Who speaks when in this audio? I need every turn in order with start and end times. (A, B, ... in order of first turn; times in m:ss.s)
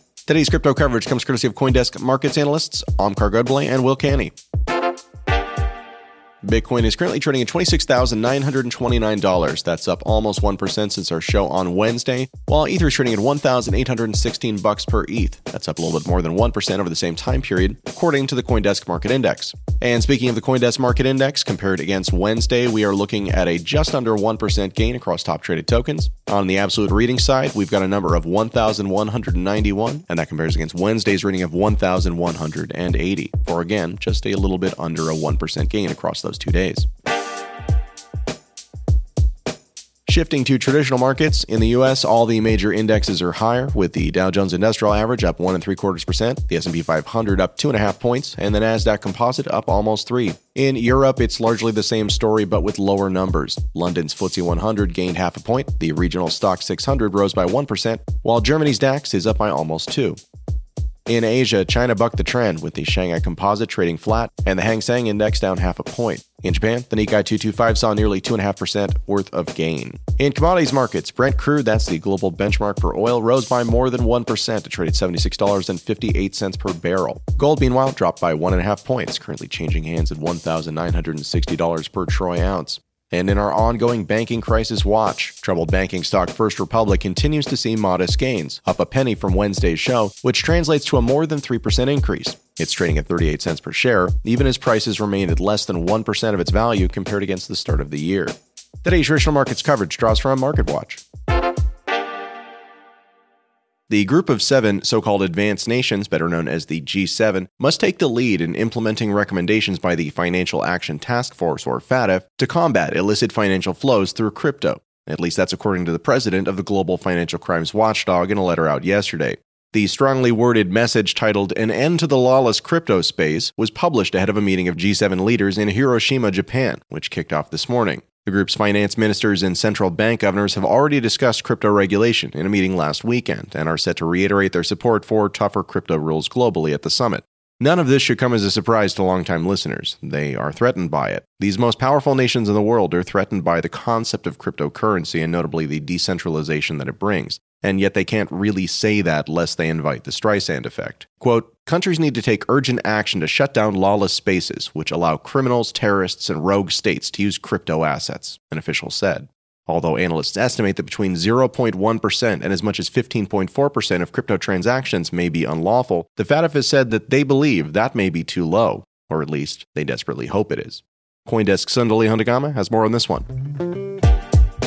0:00.3-0:04.3 A
0:06.4-0:36.9 A
0:40.1-1:00.2 A
1:01.1-1:41.0 A
1:43.9-2:53.3 A